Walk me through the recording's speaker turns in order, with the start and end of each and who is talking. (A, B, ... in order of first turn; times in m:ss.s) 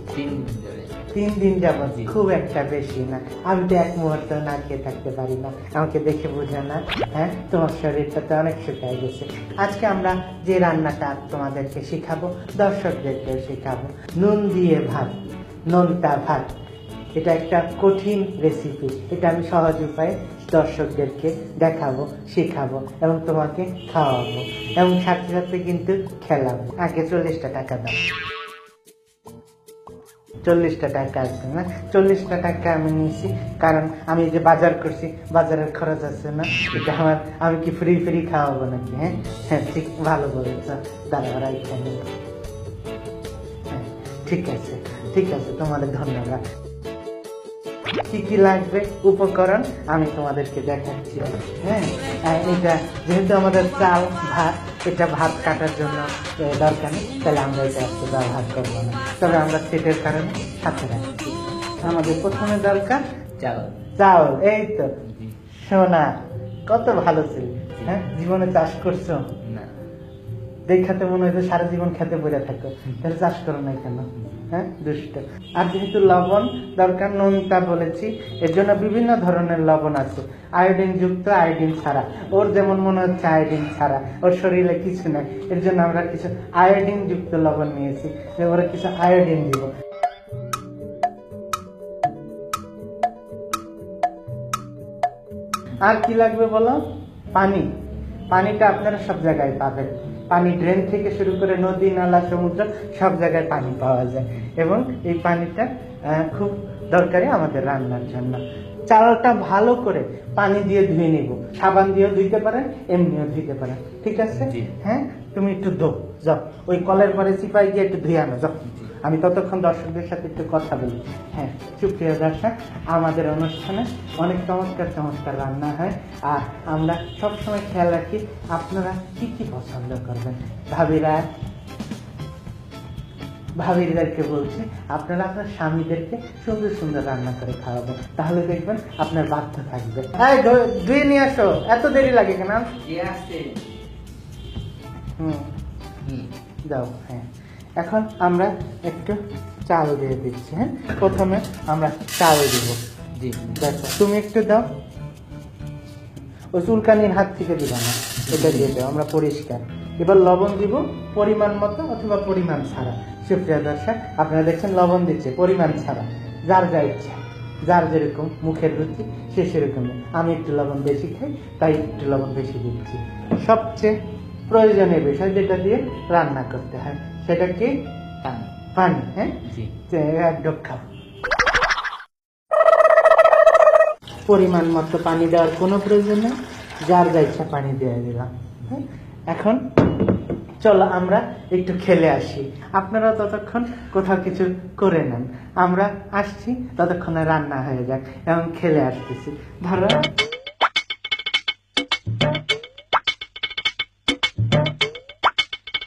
0:00.1-0:01.0 A
0:01.1-0:16.6 B
0:17.2-0:28.0 B
0:30.4-0:42.1 B
0:43.7-0:46.4 B
0:48.1-1:01.1 B
1:01.8-1:03.1 B
1:03.4-1:03.8 A
1:04.0-1:09.4 B
1:05.1-1:05.3 A
1:09.4-1:09.7 A
1:10.7-1:29.7 B
1:35.8-1:37.7 B
1:38.3-2:11.3 B
1:54.4-1:54.7 A
2:13.6-2:22.7 B
2:22.8-2:23.6 A
2:25.2-2:25.5 B
2:26.0-2:26.3 A
2:26.6-2:32.8 B
2:33.2-2:33.6 A
2:33.5-2:34.7 B
2:36.5-2:57.9 B
2:38.3-2:38.7 A
2:58.2-2:58.5 A
2:58.7-3:00.8 B
2:59.4-2:59.7 A
3:04.3-3:10.1 B
3:10.6-3:20.1 B